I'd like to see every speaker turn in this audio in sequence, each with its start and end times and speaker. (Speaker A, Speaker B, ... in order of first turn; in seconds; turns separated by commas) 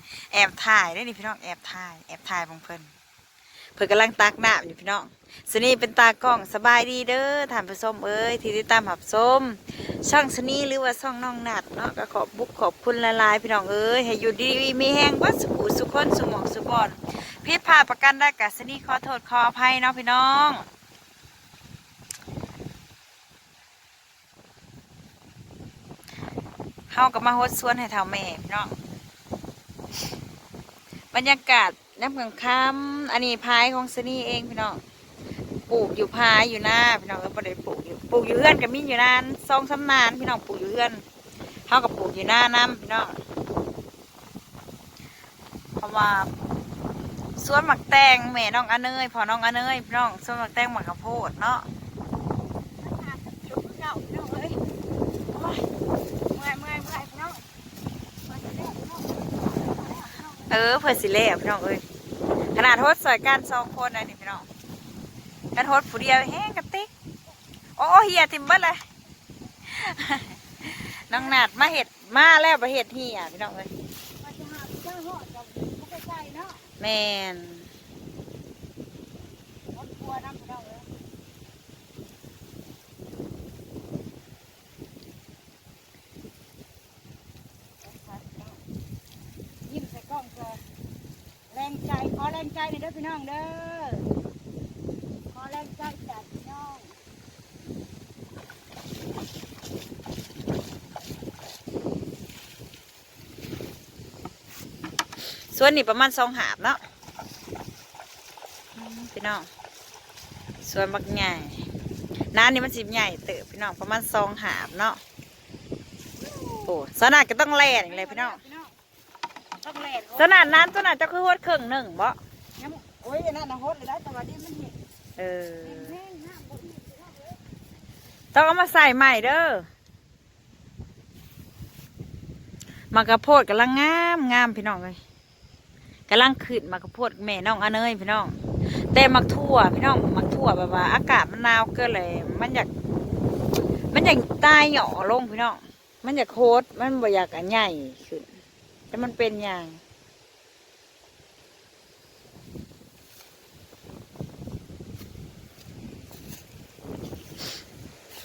Speaker A: 0.3-2.9, Speaker A: 3.8-20.6, Speaker A: 26.9-28.8, Speaker A: 31.1-34.8, Speaker A: 35.7-41.0, Speaker A: 41.7-43.2, Speaker A: 45.8-46.3, Speaker A: 47.4-51.7, Speaker B: 52.8-54.6, Speaker B: 55.3-55.7, Speaker B: 56.3-57.4, Speaker B: 58.3-60.4, Speaker A: 60.5-61.8, Speaker A: 62.5-64.5, Speaker A: 65.5-66.9, Speaker A: 67.8-68.8, Speaker A: 69.7-73.7, Speaker B: 74.2-76.6, Speaker A: 76.8-77.7, Speaker B: 79.7-80.9, Speaker B: 87.9-88.6, Speaker B: 89.7-90.6, Speaker B: 91.5-94.1, Speaker B: 95.3-97.0, Speaker A: 105.5-106.8, Speaker A: 108.8-109.5, Speaker A: 110.6-111.6, Speaker A: 112.3-115.0, Speaker B: 116.2-116.7, Speaker A: 116.7-118.4, Speaker B: 117.9-118.7, Speaker B: 119.6-120.6, Speaker A: 120.2-122.2, Speaker B: 122.6-124.7, Speaker A: 125.2-125.9, Speaker B: 125.7-127.3, Speaker A: 128.3-129.7, Speaker A: 132.9-135.0, Speaker A: 136.1-142.7, Speaker A: 143.9-148.3, Speaker A: 148.9-149.8